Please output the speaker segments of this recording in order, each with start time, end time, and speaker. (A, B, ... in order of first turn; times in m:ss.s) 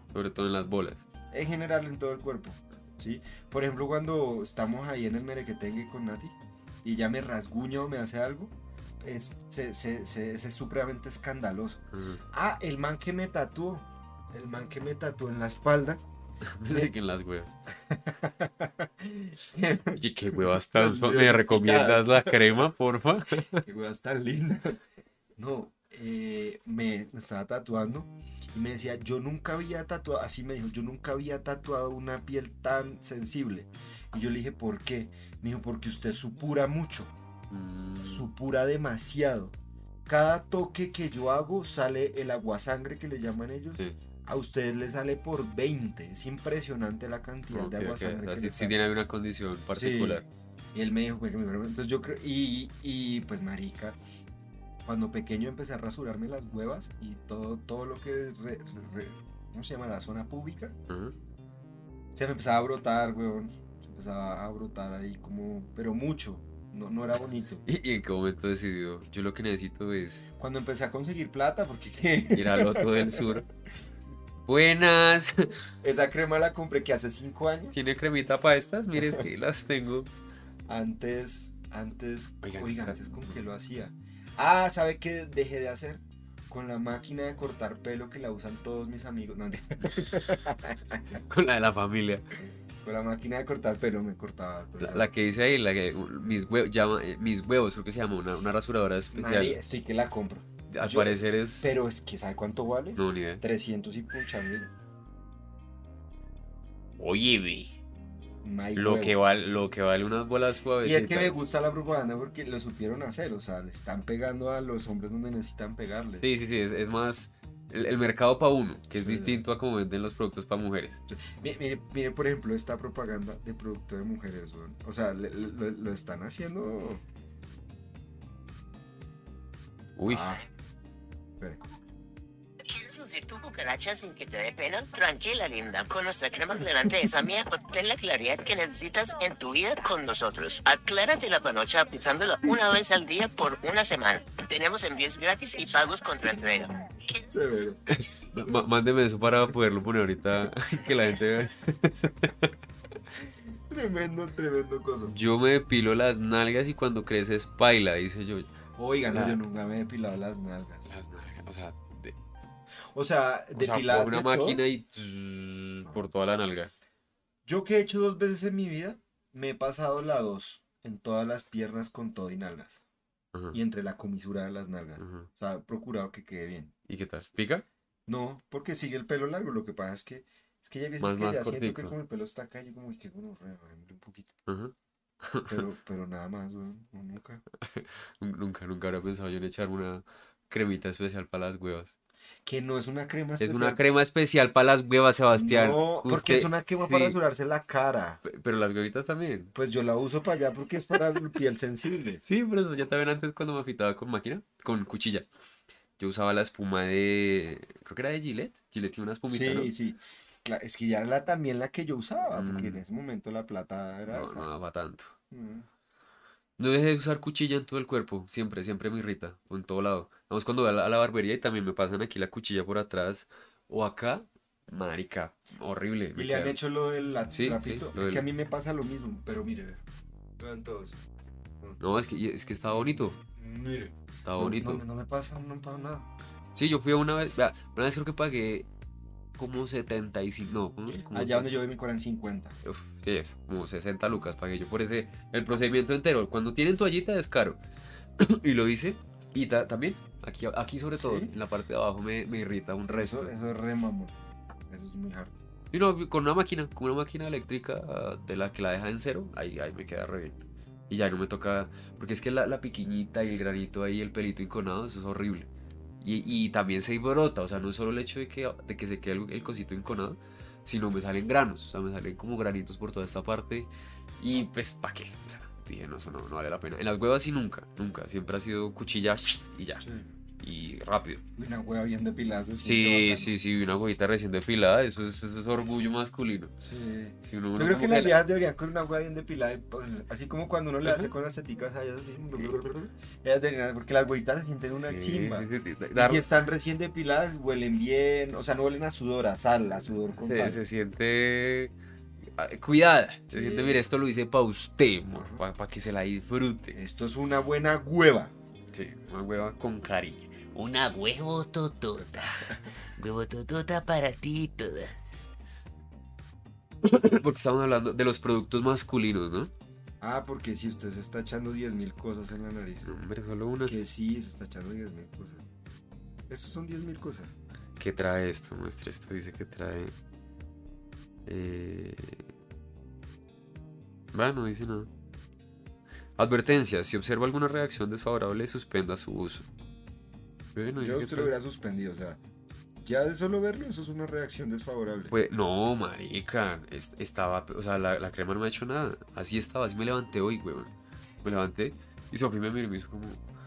0:00.1-0:01.0 A
0:01.3-0:16.0 B
0:11.9-0:12.2 A
0:16.5-0:17.6 A
0:17.9-0:22.4 B
0:19.9-0:23.6 A
0:23.6-0:24.8 B
0:25.4-0:37.1 B
0:37.5-0:38.2 A
0:38.0-0:39.5 B
0:40.0-0:48.8 B
0:47.5-0:50.2 A
0:49.7-0:50.2 B
0:50.7-0:54.0 B
0:54.8-1:00.7 B
1:00.9-1:01.1 A
1:02.1-1:07.6 B
1:07.6-1:10.2 A
1:10.4-1:13.4 B
1:12.3-1:13.4 A
1:14.4-1:15.5 A
1:15.8-1:17.8 B
1:17.7-1:20.1 A
1:20.7-1:31.2 B
1:22.4-1:23.4 A
1:31.2-1:32.3 A
1:32.8-1:35.2 B
1:34.8-1:39.6 A
1:39.1-1:44.7 B
1:40.7-1:41.7 A
1:43.0-1:43.4 A
1:47.0-1:47.7 A
1:48.4-1:49.2 B
1:48.7-1:51.3 A
1:50.8-1:56.3 B
1:56.2-2:01.0 A
1:59.0-1:59.4 B
2:01.1-2:07.0 B
2:10.0-2:10.3 A
2:10.0-2:10.4 B
2:12.6-2:27.2 C
2:27.2-2:27.8 B
2:27.9-2:32.5 A
2:33.7-2:35.1 B
2:35.1-2:38.5 A
2:38.8-2:40.8 B
2:39.1-2:39.4 A
2:40.9-2:42.1 A
2:42.9-2:44.6 B
2:43.5-2:46.7 A
2:47.4-2:52.8 B
2:53.5-2:56.7 B
2:55.0-2:55.3 A
2:56.9-2:57.6 A
2:58.1-3:04.3 B
3:01.0-3:01.9 A
3:04.5-3:05.6 A
3:05.5-3:07.4 B
3:07.6-3:11.9 A
3:12.4-3:13.8 B
3:13.4-3:17.2 A
3:15.4-3:18.2 B
3:18.2-3:19.5 A
3:19.5-3:22.2 B
3:22.2-3:25.3 A
3:26.0-3:29.7 A
3:29.3-3:34.5 B
3:32.3-3:32.8 A
3:34.1-3:35.1 A
3:35.3-3:35.6 B
3:36.6-3:46.6 A
3:46.2-3:49.8 B
3:47.3-3:48.2 A
3:50.4-3:51.0 B
3:51.8-3:53.2 A
3:53.4-3:56.1 B
3:54.2-3:54.8 A
3:56.6-3:58.7 A
3:59.4-4:01.5 A
4:00.9-4:02.6 B
4:02.6-4:07.6 A
4:08.2-4:13.3 A
4:11.0-4:11.3 B
4:12.9-4:14.1 B
4:14.7-4:15.3 B
4:15.7-4:20.4 A
4:20.9-4:25.5 A
4:26.0-4:39.8 A
4:39.8-4:40.1 B
4:40.4-4:41.2 A
4:41.4-4:43.3 B
4:42.6-4:46.5 A
4:46.6-5:00.6 B
4:47.2-4:48.2 A
4:50.8-4:51.1 A
4:54.9-4:56.2 A
5:00.2-5:01.7 A
5:02.4-5:06.8 A
5:03.3-5:03.8 B
5:05.1-5:05.4 B
5:06.7-5:08.3 B
5:08.7-5:15.0 A
5:12.0-5:12.7 B
5:16.8-5:19.5 A
5:20.0-5:22.9 B
5:22.8-5:23.8 A
5:23.6-5:25.4 B
5:26.3-5:27.4 B
5:27.8-5:29.9 A
5:31.2-5:32.2 A
5:34.1-5:34.9 A
5:36.2-5:39.4 A
5:40.5-5:41.3 A
5:40.8-5:42.2 B
5:42.8-5:45.1 B
5:45.1-5:50.7 A
5:51.2-5:53.2 A